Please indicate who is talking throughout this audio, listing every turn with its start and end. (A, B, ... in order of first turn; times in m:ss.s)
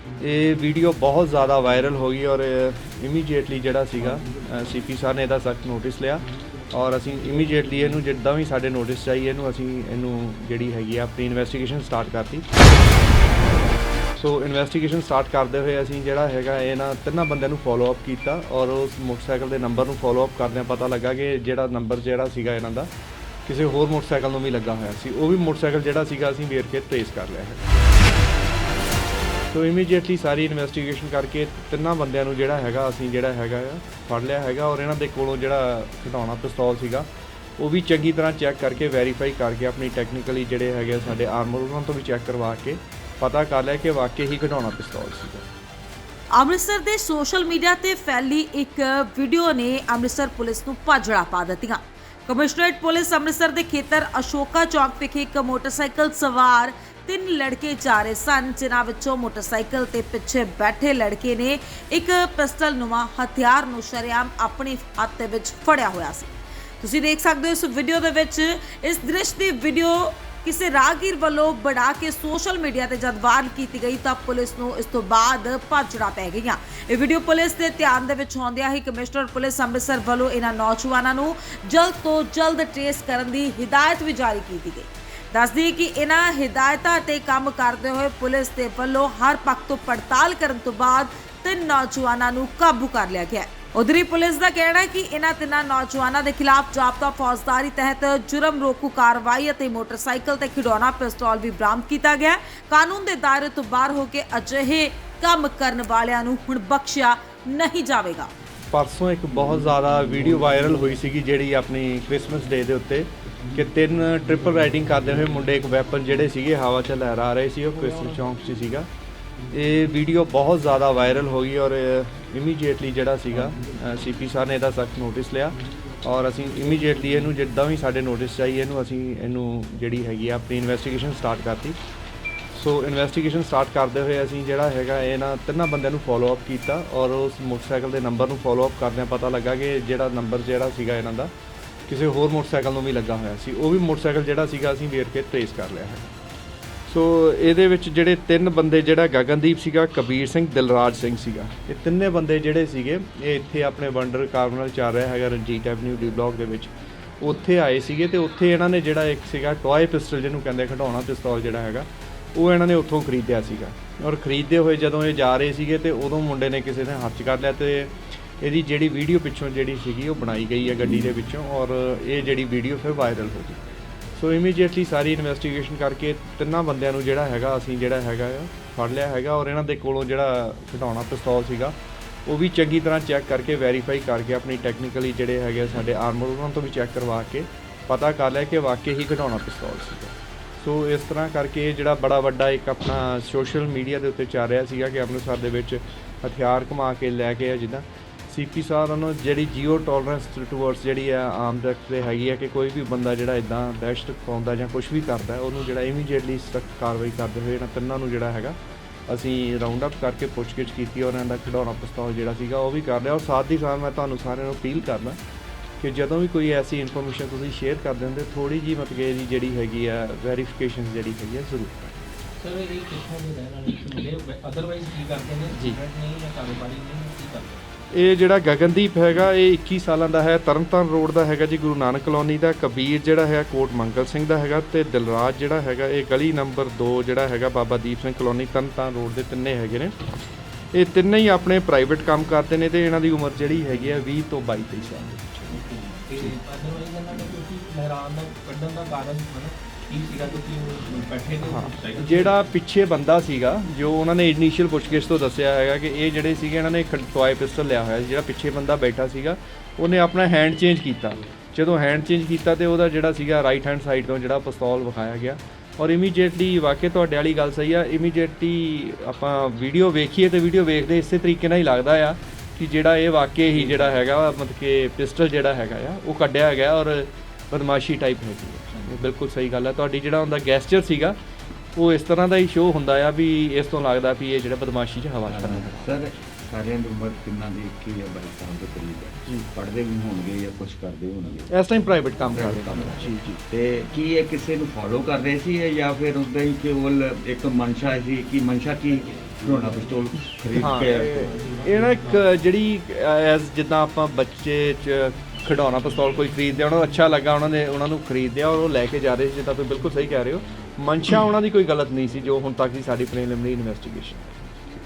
0:00.2-0:12.5 A
0:14.2-0:22.9 A
0:23.5-0:27.6 A
0:29.5-0:37.1 A
0:37.6-0:45.5 A
0:46.3-1:48.3 B
1:48.7-1:58.9 A
1:53.4-1:55.3 C
1:59.5-2:11.8 A
2:03.4-2:03.9 C
2:06.6-2:07.0 C
2:12.5-2:21.3 A
2:21.9-2:26.1 A
2:26.9-2:53.6 A
2:54.2-3:01.8 A
3:02.3-3:28.6 A
3:29.1-3:35.2 A
3:35.8-3:42.0 A
3:42.4-3:47.6 C
3:45.5-3:45.8 A
3:47.9-4:00.0 A
4:00.7-4:06.4 A
4:05.5-4:12.5 C
4:11.4-4:41.2 A
4:33.6-4:33.8 C
4:41.8-4:46.1 A
4:45.3-4:51.5 D
4:49.2-4:49.5 A
4:51.5-4:53.4 A
4:52.2-5:01.4 D
4:59.7-5:00.0 C
5:00.6-5:14.6 A
5:00.8-5:02.4 C